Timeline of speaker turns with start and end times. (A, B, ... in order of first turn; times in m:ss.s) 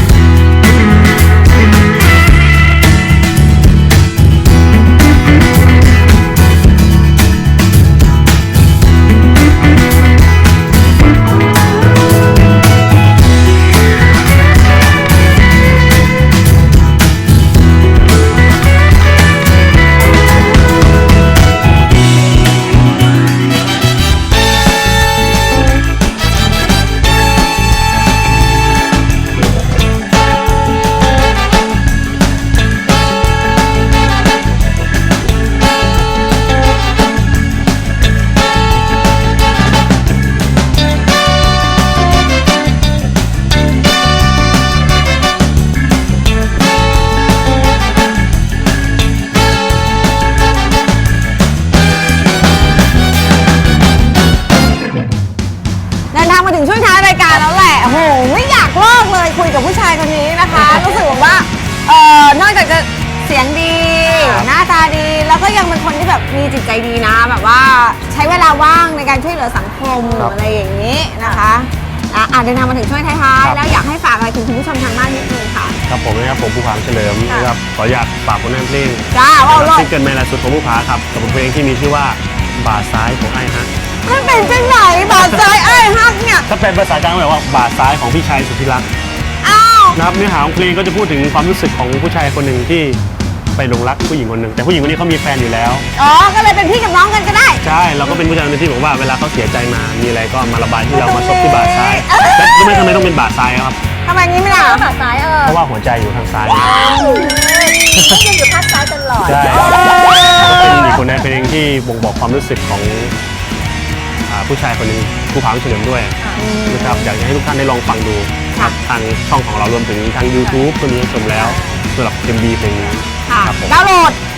0:56.1-1:15.8 A
1:04.0-1:04.4 B
1:04.2-1:04.5 C
1:15.9-1:23.7 C
1:19.1-1:19.9 A
1:24.0-1:26.5 A
1:24.1-1:25.0 B
1:25.1-1:25.8 C
1:26.5-1:28.9 C
1:29.4-1:30.0 A
1:29.9-1:33.0 C
1:33.5-1:35.9 C
1:36.0-1:38.2 A
1:37.6-1:43.8 C
1:40.9-1:43.0 A
1:44.0-1:44.8 A
1:44.5-1:45.6 B
1:45.4-1:46.8 C
1:46.6-1:51.0 B
1:46.6-1:47.4 A
1:47.9-1:48.2 C
1:49.2-1:53.1 C
1:54.2-2:03.7 C
1:56.4-1:57.1 A
2:01.3-2:01.8 B
2:03.3-2:04.2 A